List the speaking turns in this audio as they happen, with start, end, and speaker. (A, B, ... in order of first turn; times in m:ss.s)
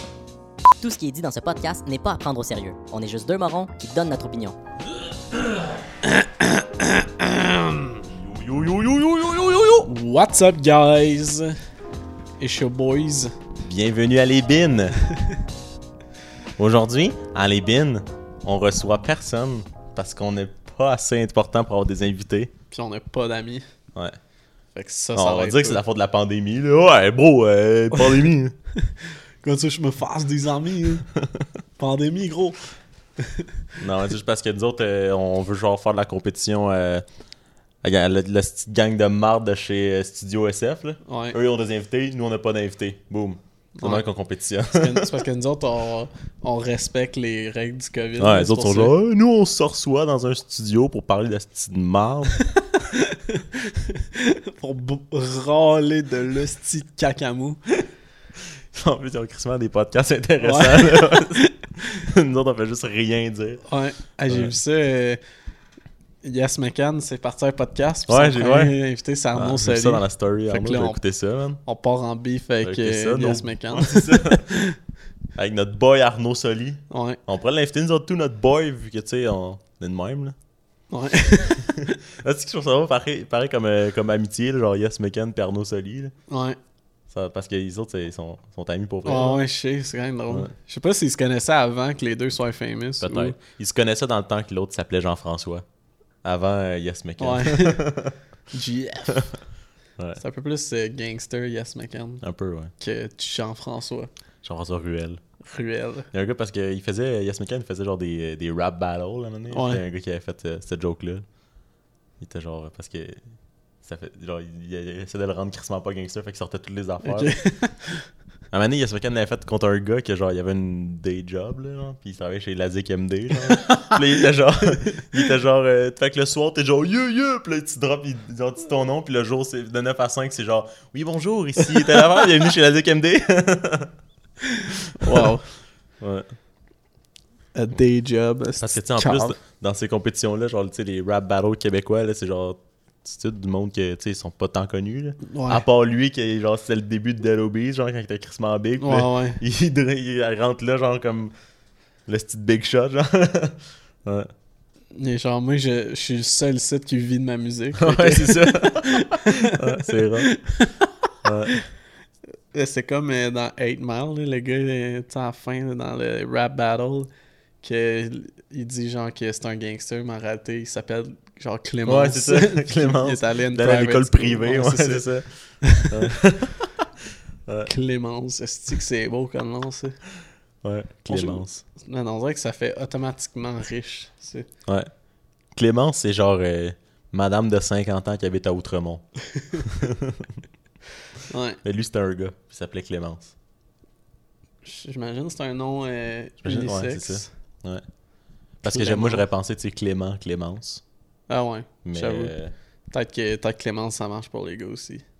0:00.8-0:04.5 A
0:06.0-0:08.0 B
0:08.1-0:09.9 C
0:09.8-0:11.5 B
0:12.4-0:13.3 B
0:13.6-0:15.0 C
0:16.6-0:22.5 C
0:22.7-0:23.6 B
0:24.7-0:25.8 B
0:25.1-0:28.5 C
0:28.8-0:31.0 B
0:31.8-0:32.6 B
0:33.2-0:33.5 B
0:33.8-0:37.0 C
0:37.8-0:45.1 C
0:41.0-0:41.4 B
0:43.8-0:44.0 B
0:44.7-0:48.9 B
0:48.2-0:52.4 C
0:52.6-0:57.6 B
0:58.7-1:03.6 C
1:00.4-1:01.5 B
1:03.6-1:05.2 B
1:04.3-1:04.5 C
1:06.2-1:11.0 B
1:08.1-1:08.7 C
1:09.3-1:11.6 C
1:11.6-1:14.8 B
1:12.6-1:14.5 C
1:15.4-1:20.4 C
1:16.9-1:17.2 B
1:20.9-1:21.9 B
1:21.4-1:26.1 C
1:26.3-1:26.6 B
1:27.1-1:29.4 C
1:29.0-1:33.4 B
1:33.0-1:35.6 C
1:36.2-1:38.2 C
1:37.2-1:37.8 B
1:38.5-1:39.3 B
1:40.2-1:42.2 B
1:42.2-1:42.7 C
1:42.8-1:44.1 B
1:44.4-1:45.2 C
1:45.4-1:46.1 B
1:46.1-1:51.2 C
1:49.5-1:49.8 B
1:52.2-1:53.2 C
1:53.8-1:57.3 C
1:57.0-1:58.0 B
1:58.5-2:13.9 C
2:03.5-2:04.1 B
2:11.7-2:12.0 B
2:14.4-2:15.4 B
2:14.9-2:15.3 C
2:16.0-2:16.2 C
2:17.5-2:19.4 B
2:18.6-2:31.3 C
2:25.3-2:25.6 B
2:28.8-2:29.4 B
2:32.1-2:34.3 C
2:34.9-2:40.9 B
2:37.8-2:40.3 C
2:41.2-2:41.6 C
2:42.5-2:47.1 B
2:47.6-2:55.1 B
2:51.8-2:55.3 C
2:55.6-2:56.1 B
2:55.8-2:56.8 C
2:57.6-3:00.0 B
3:00.6-3:01.6 C
3:01.1-3:04.5 B
3:05.5-3:09.0 C
3:09.5-3:10.2 C
3:11.3-3:11.6 B
3:11.6-3:13.3 C
3:14.6-3:17.3 B
3:16.4-3:17.8 C
3:18.6-3:19.2 B
3:18.6-3:20.8 C
3:21.3-3:22.3 B
3:21.8-3:22.5 C
3:22.9-3:25.0 B